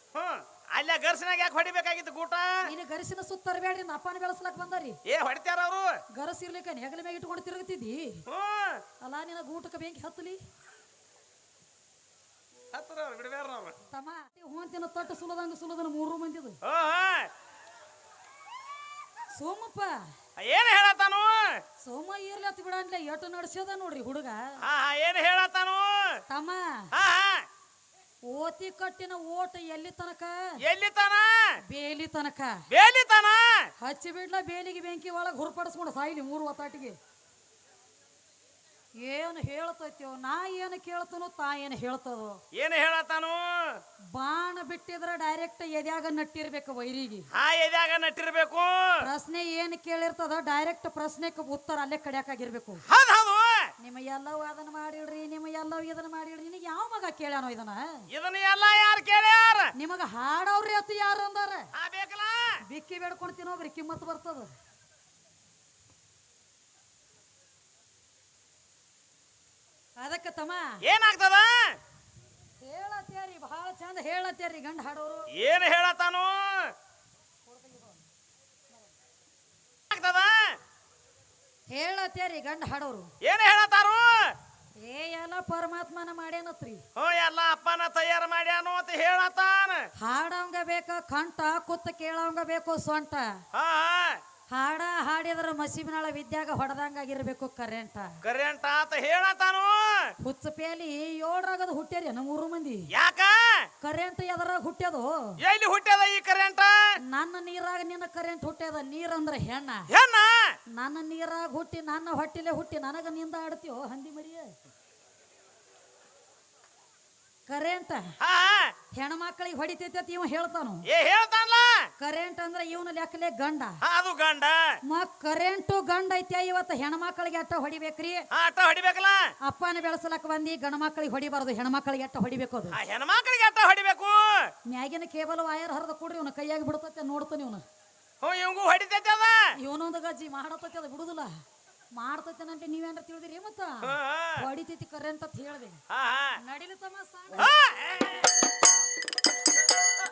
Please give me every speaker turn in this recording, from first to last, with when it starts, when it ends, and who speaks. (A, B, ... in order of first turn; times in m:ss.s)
0:00.1-0:02.7 A
0:02.6-0:05.0 B
0:05.0-0:06.0 A
0:06.1-0:08.2 B
0:08.3-0:08.8 A
0:09.0-0:10.4 B
0:12.7-0:13.8 A
0:13.9-0:16.6 B
0:16.6-0:17.3 A
0:19.4-0:20.0 B
0:20.4-0:21.6 A
0:21.8-0:24.5 B
0:24.6-0:26.2 A
0:26.3-0:26.9 B
0:26.9-0:27.5 A
0:28.3-0:30.6 B
0:30.6-0:31.6 A
0:31.7-0:32.6 B
0:32.7-0:33.7 A
0:33.8-0:37.0 B
0:39.0-0:42.4 B
0:42.5-0:43.8 A
0:44.1-0:47.3 B
0:47.3-0:49.1 A
0:49.0-0:52.8 B
0:52.9-0:53.7 A
0:53.8-0:58.0 B
0:58.1-0:59.7 A
0:59.8-1:01.7 B
1:01.7-1:02.6 A
1:02.7-1:04.5 B
1:10.0-1:10.8 B
1:10.8-1:11.8 A
1:12.6-1:15.3 B
1:15.3-1:16.7 A
1:17.5-1:18.0 B
1:19.9-1:20.6 A
1:21.7-1:23.1 B
1:23.2-1:24.4 A
1:24.8-1:26.8 B
1:27.0-1:29.9 A
1:30.0-1:33.4 B
1:33.5-1:34.2 A
1:34.5-1:38.2 B
1:38.2-1:40.1 A
1:40.2-1:42.9 B
1:42.9-1:43.7 A
1:43.8-1:45.4 B
1:45.4-1:47.0 A
1:47.0-1:49.9 B
1:49.9-1:50.6 A
1:50.7-1:54.5 B
1:57.5-1:58.2 B
1:58.2-1:58.7 A
1:58.9-2:00.8 B
2:00.9-2:01.9 A
2:02.0-2:03.8 B
2:03.8-2:04.8 A
2:04.9-2:08.3 B
2:08.3-2:09.3 A
2:09.4-2:12.8 B
2:12.7-2:14.5 A
2:14.7-2:17.6 B
2:18.2-2:19.5 A
2:19.6-2:21.3 B
2:21.9-2:25.8 B
2:23.8-2:24.4 A
2:25.9-2:26.4 A
2:26.4-2:27.5 B
2:27.3-2:28.4 A